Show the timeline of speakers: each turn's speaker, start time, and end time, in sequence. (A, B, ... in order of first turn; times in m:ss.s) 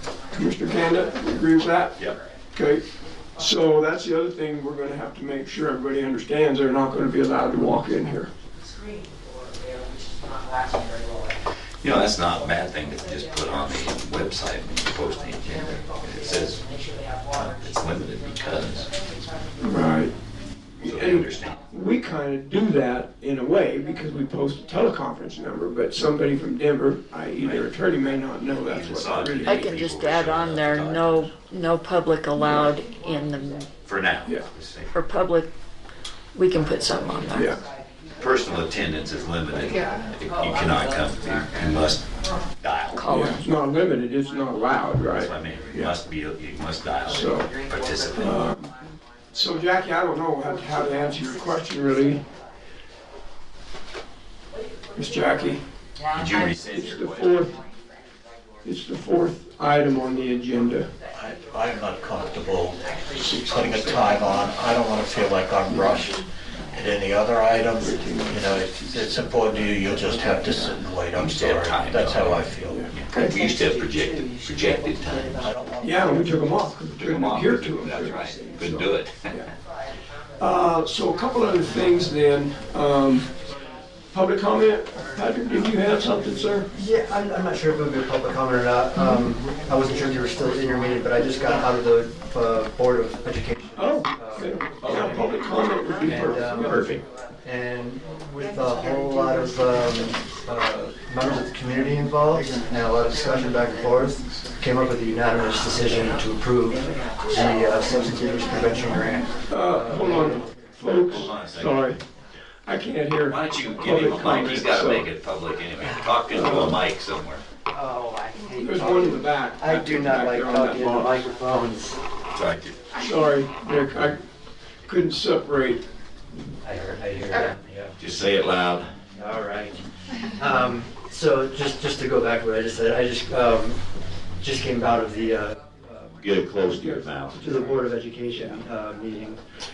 0:00.4-0:02.0 A
0:00.6-0:01.2 B
0:02.5-0:02.8 A
0:03.4-0:08.3 A
0:08.6-0:11.2 B
0:11.8-0:16.6 C
0:16.5-0:17.3 B
0:17.3-0:18.9 C
0:19.6-0:20.1 A
0:20.8-0:29.7 A
0:20.8-0:21.6 C
0:28.6-0:31.3 C
0:29.4-0:33.7 D
0:32.4-0:32.7 A
0:33.8-0:34.9 C
0:34.9-0:35.5 D
0:36.3-0:37.6 D
0:37.3-0:37.6 A
0:38.2-0:42.0 C
0:39.6-0:40.0 B
0:42.6-0:43.1 C
0:42.9-0:43.4 D
0:43.1-0:46.0 A
0:45.2-0:48.4 C
0:47.1-0:47.5 A
0:48.2-0:48.7 A
0:49.3-0:52.2 A
0:55.0-0:55.6 A
0:56.0-0:56.5 B
0:56.1-0:57.5 C
0:56.7-0:57.6 A
0:58.6-1:00.9 A
1:01.1-1:12.9 E
1:03.2-1:04.4 A
1:05.7-1:06.2 A
1:07.8-1:10.8 A
1:11.1-1:15.5 C
1:12.6-1:13.4 A
1:15.4-1:16.4 E
1:15.8-1:19.5 A
1:16.9-1:19.3 C
1:20.4-1:23.3 A
1:24.1-1:26.7 A
1:26.8-1:35.5 F
1:33.8-1:37.0 A
1:36.0-1:36.9 F
1:37.4-1:50.6 F
1:49.5-1:52.0 A
1:50.9-1:51.8 C
1:52.7-1:55.1 A
1:53.3-1:57.4 C
1:56.3-1:56.8 A
1:57.7-2:02.0 F
1:58.6-2:01.3 A
2:02.4-2:02.8 C
2:03.0-2:04.2 A
2:04.9-2:05.8 A
2:06.6-2:08.0 F
2:08.0-2:08.9 C
2:09.1-2:13.8 F
2:14.4-2:16.1 F
2:16.3-2:17.1 B
2:16.3-2:17.3 C
2:16.6-2:17.2 A
2:17.4-2:19.4 F